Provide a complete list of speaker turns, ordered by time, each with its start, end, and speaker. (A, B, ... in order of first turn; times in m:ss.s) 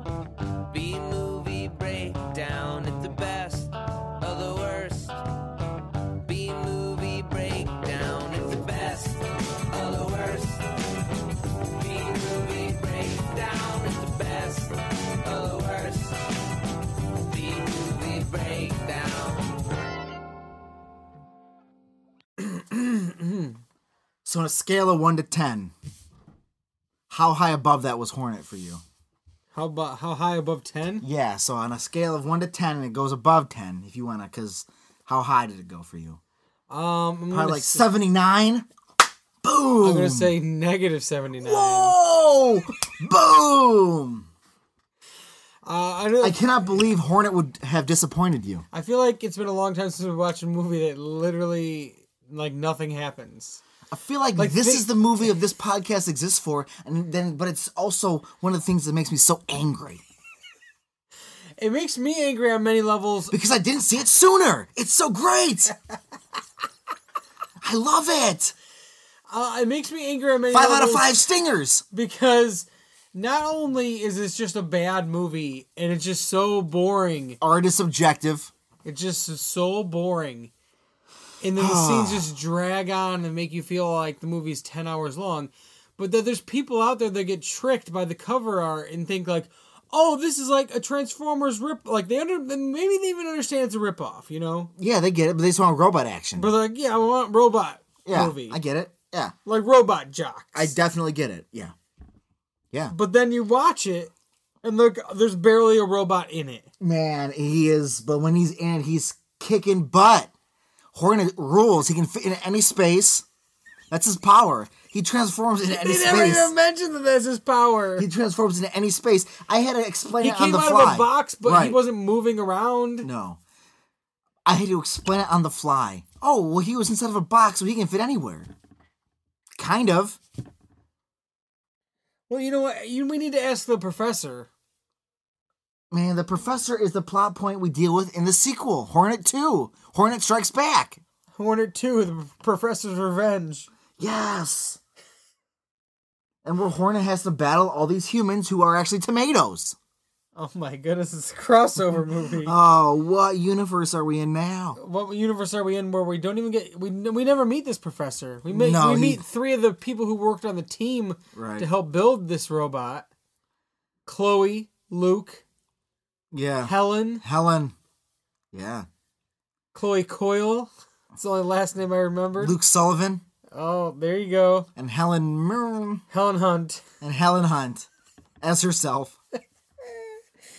0:00.7-0:05.2 A
0:06.2-0:10.7 A
0:11.7-0:16.3 A
0:17.2-0:19.7 A
0:22.4-0:23.6 B
0:24.2-0:25.7 C
0:27.1-0:28.8 C
0:29.5-0:31.0 B
0:31.0-0:36.2 C
0:36.7-0:37.9 B
0:37.3-0:38.6 C
0:39.4-0:40.3 C
0:39.8-0:42.0 B
0:41.4-0:44.3 C
0:45.6-0:46.4 B
0:46.2-0:48.6 C
0:48.7-0:53.6 B
0:53.9-1:00.0 C
0:54.4-0:54.9 B
1:01.6-1:03.3 B
1:03.3-1:05.8 C
1:07.6-1:08.5 C
1:09.3-1:11.1 B
1:10.5-1:11.8 C
1:11.9-1:17.4 B
1:17.4-1:18.5 C
1:18.8-1:20.5 B
1:21.4-1:34.7 B
1:21.6-1:22.3 C
1:34.8-1:36.5 C
1:36.4-1:38.6 B
1:38.0-1:39.3 C
1:39.4-1:40.7 B
1:40.5-1:41.7 C
1:42.9-1:44.1 B
1:44.6-1:46.7 B
1:46.8-1:50.3 C
1:50.9-1:53.2 C
1:53.9-1:56.5 C
1:55.7-1:58.1 B
1:58.0-2:01.8 C
2:00.2-2:03.1 B
2:03.0-2:03.4 C
2:04.4-2:08.5 C
2:09.6-2:10.2 C
2:12.3-2:14.5 B
2:15.9-2:21.0 C
2:21.3-2:23.7 B
2:24.0-2:24.8 C
2:26.4-2:29.8 C
2:30.4-2:32.6 B
2:32.4-2:34.8 C
2:34.8-2:43.1 B
2:38.5-2:39.2 C
2:41.3-2:41.7 C
2:44.0-2:45.4 B
2:46.3-2:47.7 C
2:46.6-2:47.2 B
2:48.5-2:48.9 C
2:49.7-2:52.6 B
2:52.4-2:53.2 C
2:53.5-2:54.7 B
2:54.8-2:56.0 C
2:56.1-2:56.8 B
2:57.0-2:57.9 C
2:58.4-2:59.2 C
2:59.8-3:00.2 B